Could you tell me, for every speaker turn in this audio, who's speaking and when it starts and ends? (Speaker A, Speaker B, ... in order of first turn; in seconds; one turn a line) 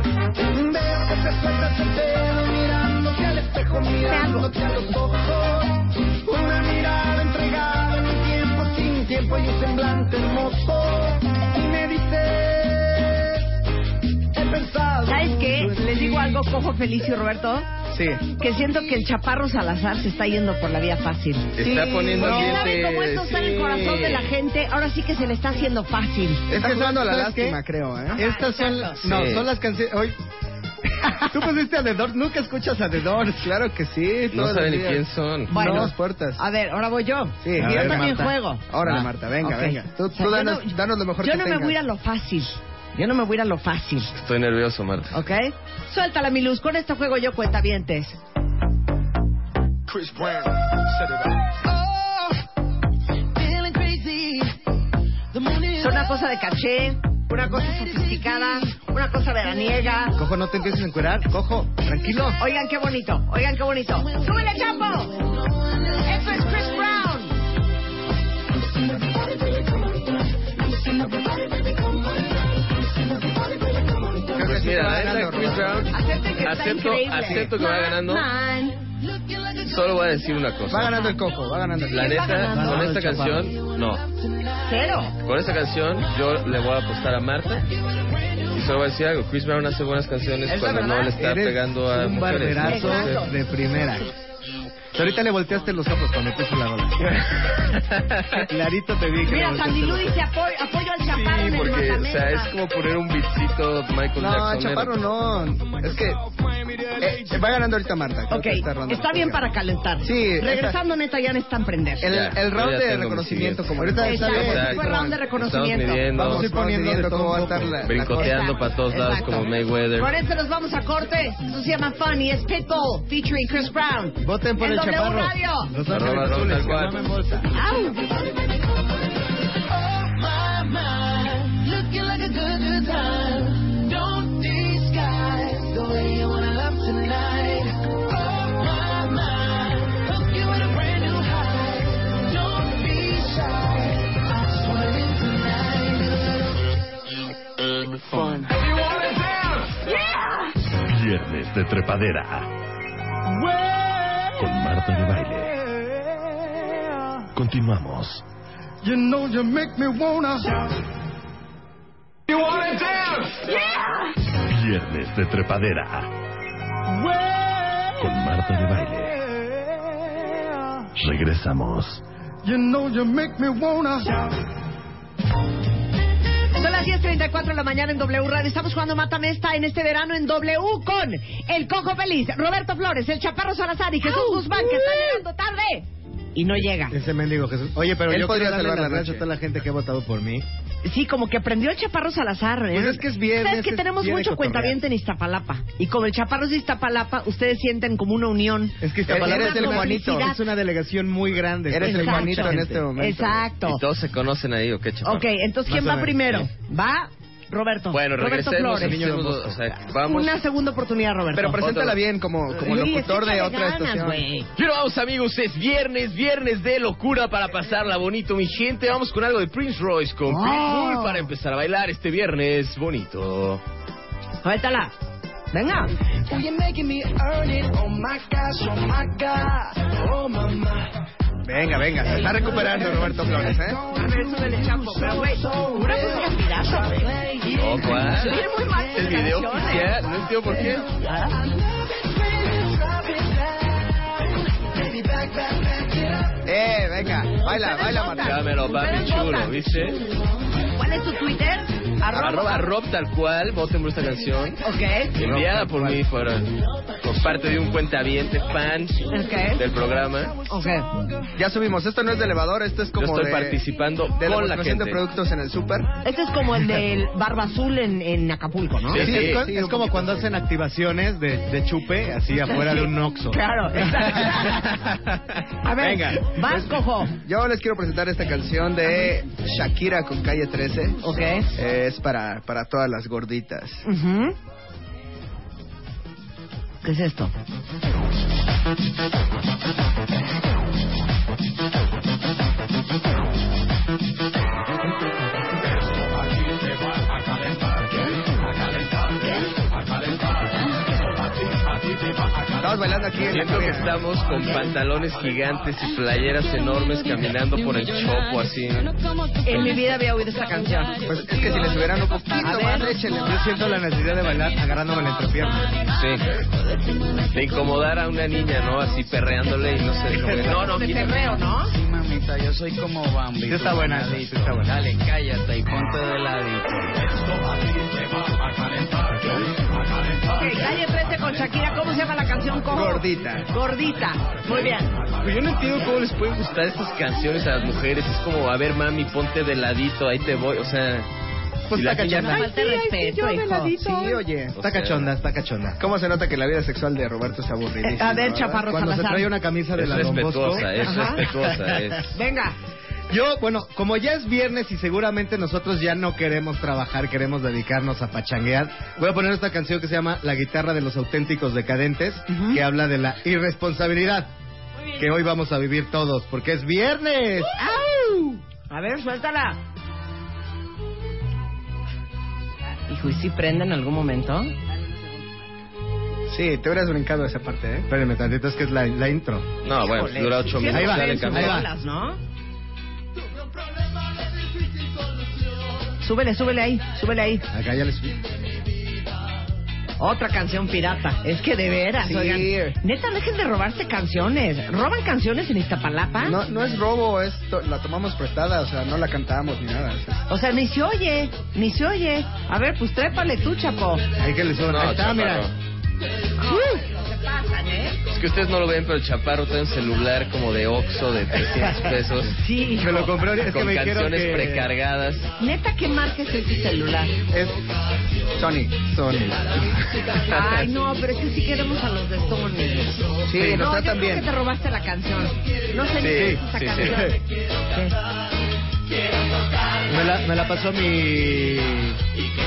Speaker A: 0.5-13.2
Speaker B: 4.0-4.5
Speaker A: 14.3-16.4
Speaker B: 15.1-17.7
Speaker C: 17.9-18.4
Speaker B: 18.4-26.5
Speaker D: 21.6-24.3
Speaker E: 22.2-22.6
Speaker C: 26.5-28.2
Speaker E: 26.5-27.6
Speaker E: 28.1-30.2
Speaker B: 28.2-29.0
Speaker D: 29.0-29.5
Speaker E: 31.0-33.5
Speaker C: 33.4-36.4
Speaker D: 34.3-35.8
Speaker B: 35.5-38.7
Speaker C: 37.4-41.8
Speaker E: 37.6-39.1
Speaker B: 39.4-44.1
Speaker D: 44.1-45.2
Speaker B: 45.1-48.2
Speaker A: 49.9-52.0
Speaker A: 53.4-54.5
Speaker A: 55.3-56.1
Speaker B: 55.8-60.2
Speaker E: 60.2-62.4
Speaker B: 62.4-65.2
Speaker A: 64.5-64.8
Speaker A: 65.9-66.6
Speaker B: 66.0-67.3
Speaker A: 68.6-72.0
Speaker C: 74.3-75.9
Speaker D: 74.4-78.3
Speaker B: 75.9-78.9
Speaker D: 79.6-81.0
Speaker C: 80.7-82.4
Speaker D: 81.9-84.0
Speaker B: 82.0-82.9
Speaker E: 82.6-83.5
Speaker B: 84.6-85.2
Speaker D: 85.2-87.7
Speaker D: 88.5-93.3
Speaker E: 90.6-94.1
Speaker B: 92.6-93.3
Speaker E: 94.9-97.2
Speaker D: 97.7-98.5
Speaker E: 98.4-100.2
Speaker B: 99.2-102.5
Speaker D: 101.0-105.0
Speaker C: 104.2-106.2
Speaker A: 106.4-107.1
Speaker C: 107.0-109.5
Speaker B: 108.3-112.1
Speaker C: 110.0-110.8
Speaker C: 112.0-115.0
Speaker D: 112.1-116.5
Speaker E: 113.8-114.8
Speaker B: 114.0-116.1
Speaker E: 116.2-117.8
Speaker C: 116.2-118.6
Speaker D: 117.8-120.2
Speaker B: 118.1-125.7
Speaker E: 124.2-127.5
Speaker D: 125.9-127.0
Speaker B: 127.5-128.0
Speaker A: 129.8-146.4
Speaker A: 148.1-149.8
Speaker F: 150.8-152.5
Speaker A: 153.4-154.3
Speaker F: 154.4-155.6
Speaker F: 157.3-158.2
Speaker A: 158.8-160.6
Speaker A: 162.3-163.7
Speaker F: 164.4-166.1
Speaker A: 166.9-167.9
Speaker F: 168.0-169.2
Speaker F: 171.0-172.0
Speaker A: 172.4-174.3
Speaker B: 176.6-187.0
Speaker E: 186.9-190.5
Speaker C: 188.1-189.2
Speaker B: 190.8-200.4
Speaker E: 192.7-194.8
Speaker E: 198.8-202.8
Speaker C: 199.1-200.3
Speaker C: 201.7-203.5
Speaker B: 201.8-203.8
Speaker D: 203.7-205.3
Speaker B: 205.0-209.1
Speaker E: 205.7-206.5
Speaker D: 207.9-210.4
Speaker E: 208.7-209.6
Speaker B: 210.0-211.9
Speaker C: 211.3-214.3
Speaker B: 212.5-214.5
Speaker D: 214.6-223.6
Speaker B: 220.3-221.3
Speaker B: 224.4-224.9
Speaker B: 225.5-225.9
Speaker A: 226.3-230.9
Speaker C: 231.4-233.8
Speaker A: 232.0-238.2
Speaker B: 233.9-237.2
Speaker D: 237.5-240.9
Speaker B: 237.9-240.0
Speaker B: 241.0-241.4
Speaker A: 242.0-244.0
Speaker A: 244.7-246.4
Speaker C: 246.4-248.4
Speaker B: 247.5-250.0
Speaker D: 248.1-250.0
Speaker B: 250.7-252.7
Speaker D: 252.1-254.6
Speaker B: 254.6-255.2
Speaker D: 255.2-259.0
Speaker E: 255.3-256.0
Speaker B: 259.1-259.7
Speaker D: 259.6-260.4
Speaker B: 260.5-260.9
Speaker C: 261.4-263.6
Speaker D: 263.0-265.0
Speaker C: 264.1-266.0
Speaker B: 266.0-269.1
Speaker D: 268.9-269.5
Speaker E: 269.0-274.4
Speaker C: 269.0-270.2
Speaker B: 272.5-274.7
Speaker B: 275.6-277.2
Speaker C: 275.8-281.0
Speaker B: 281.0-281.5
Speaker C: 281.5-283.9
Speaker B: 283.9-284.4
Speaker B: 286.8-287.3
Speaker A: 297.2-297.6
Speaker C: 302.6-303.9
Speaker D: 303.2-308.9
Speaker B: 309.4-311.0
Speaker C: 311.1-313.3
Speaker B: 312.4-312.9
Speaker E: 312.4-315.7
Speaker D: 315.9-316.2
Speaker D: 317.3-321.3
Speaker E: 320.1-320.6
Speaker B: 320.3-321.8
Speaker G: 321.7-327.2
Speaker E: 323.4-324.7
Speaker G: 328.6-329.4
Speaker B: 330.3-335.0
Speaker C: 332.7-333.5
Speaker D: 334.5-341.1
Speaker D: 341.7-342.5
Speaker E: 341.7-342.5
Speaker B: 342.1-344.2
Speaker A: 342.6-343.7
Speaker C: 343.7-344.6
Speaker E: 344.6-345.8
Speaker D: 344.6-345.1
Speaker C: 345.8-348.7
Speaker B: 347.8-349.3
Speaker E: 348.7-352.0
Speaker D: 349.8-352.1
Speaker B: 350.8-351.4
Speaker B: 352.1-352.6
Speaker E: 353.1-364.3
Speaker B: 362.3-362.6
Speaker E: 364.9-367.6
Speaker B: 367.6-369.6
Speaker B: 372.9-374.6
Speaker C: 376.3-377.9
Speaker E: 377.9-379.5
Speaker D: 379.6-381.6
Speaker B: 379.7-382.2
Speaker E: 380.6-381.7
Speaker B: 386.0-387.5
Speaker E: 387.5-388.2
Speaker B: 390.0-396.4
Speaker C: 392.0-392.8
Speaker C: 396.2-400.2
Speaker B: 400.3-404.1
Speaker E: 404.2-405.5
Speaker D: 404.7-405.5
Speaker B: 406.4-408.0
Speaker D: 408.1-415.3
Speaker B: 412.4-413.2
Speaker E: 412.8-414.7
Speaker B: 415.4-417.2
Speaker E: 417.3-417.6
Speaker C: 418.4-419.4
Speaker D: 419.9-420.6
Speaker B: 420.2-427.2
Speaker C: 423.3-424.3
Speaker D: 426.0-427.1
Speaker E: 426.0-427.1
Speaker E: 429.9-432.0